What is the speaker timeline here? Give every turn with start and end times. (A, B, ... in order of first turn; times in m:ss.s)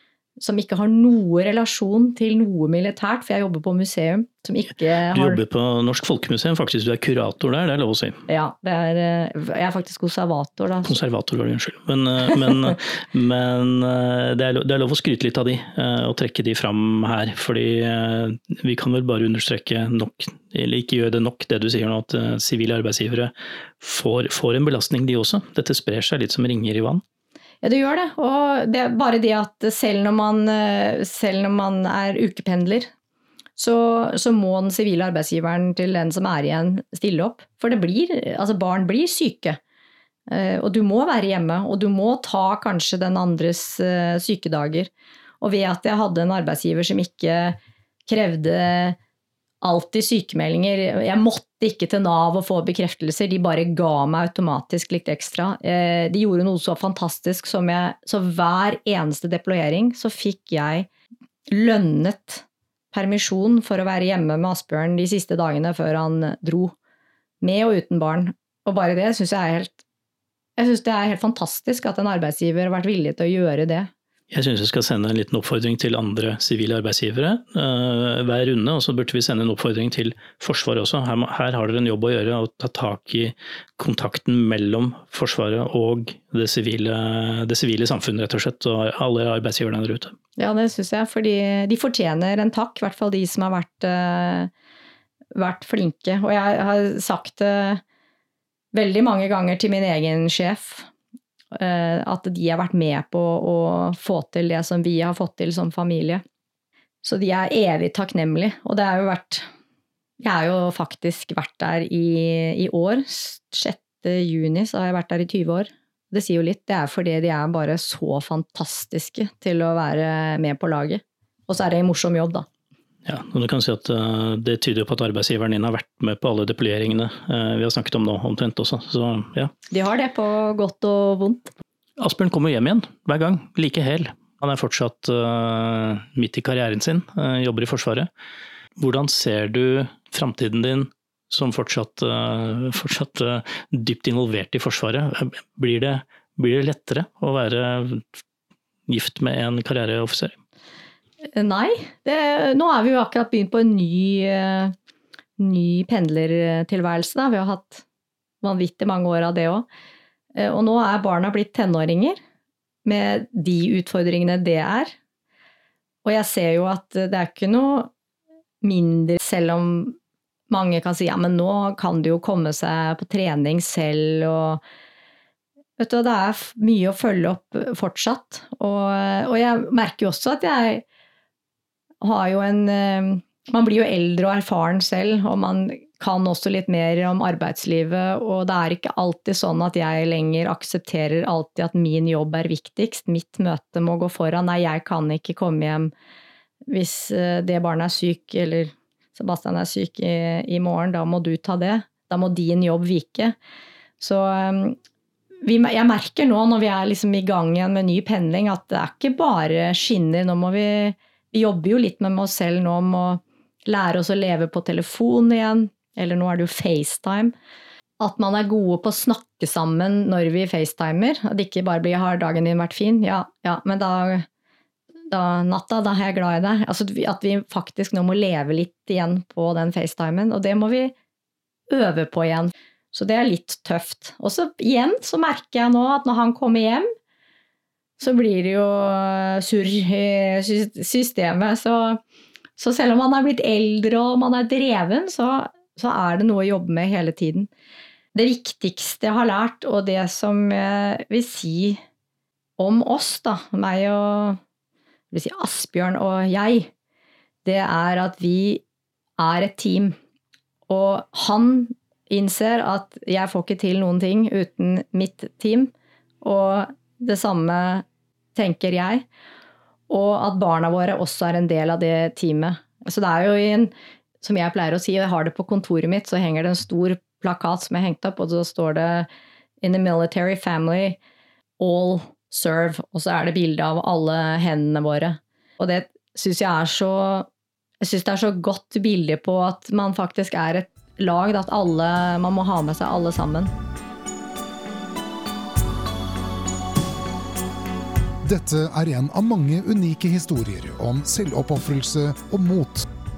0:00.4-0:05.4 A
0:05.1-0:08.2 B
0:08.3-0:10.9 A
0:10.8-0:27.0 B
0:27.6-0:32.9 A
0:33.6-0:39.6 A
0:40.3-0:44.9 A
0:45.4-0:49.0 A
0:49.6-1:00.9 A
1:01.5-1:06.8 A
1:07.4-1:09.8 A
1:10.6-1:13.9 A
1:14.3-1:30.2 B
1:30.4-1:34.5 A
1:35.4-1:37.8 A
1:38.7-1:40.9 A
1:41.6-1:46.2 A
1:47.0-1:49.5 A
1:50.2-2:02.5 A
2:03.0-2:09.5 B
2:09.7-2:11.5 A
2:12.0-2:18.1 B
2:18.8-2:28.2 B
2:28.9-2:30.4 B
2:31.4-2:34.8 A
2:35.4-2:37.8 A
2:38.4-2:39.7 A
2:40.4-2:42.2 A
2:42.8-2:44.9 A
2:46.0-2:47.9 A
2:48.6-2:50.0 A
2:50.5-2:54.6 A
2:55.8-3:00.8 A
3:02.0-3:15.9 A
3:16.7-3:23.4 A
3:24.0-3:24.8 A
3:25.4-3:37.3 A
3:38.0-3:44.3 A
3:45.1-3:50.9 A
3:51.7-3:56.9 A
3:58.0-4:02.0 A
4:02.6-4:07.5 A
4:08.1-4:11.8 A
4:12.6-4:14.4 A
4:15.1-4:16.7 A
4:17.4-4:18.6 A
4:19.2-4:20.0 A
4:20.7-4:29.1 A
4:29.9-4:39.1 A
4:39.6-4:41.0 A
4:41.6-4:47.3 A
4:47.8-4:53.5 A
4:58.2-5:02.9 C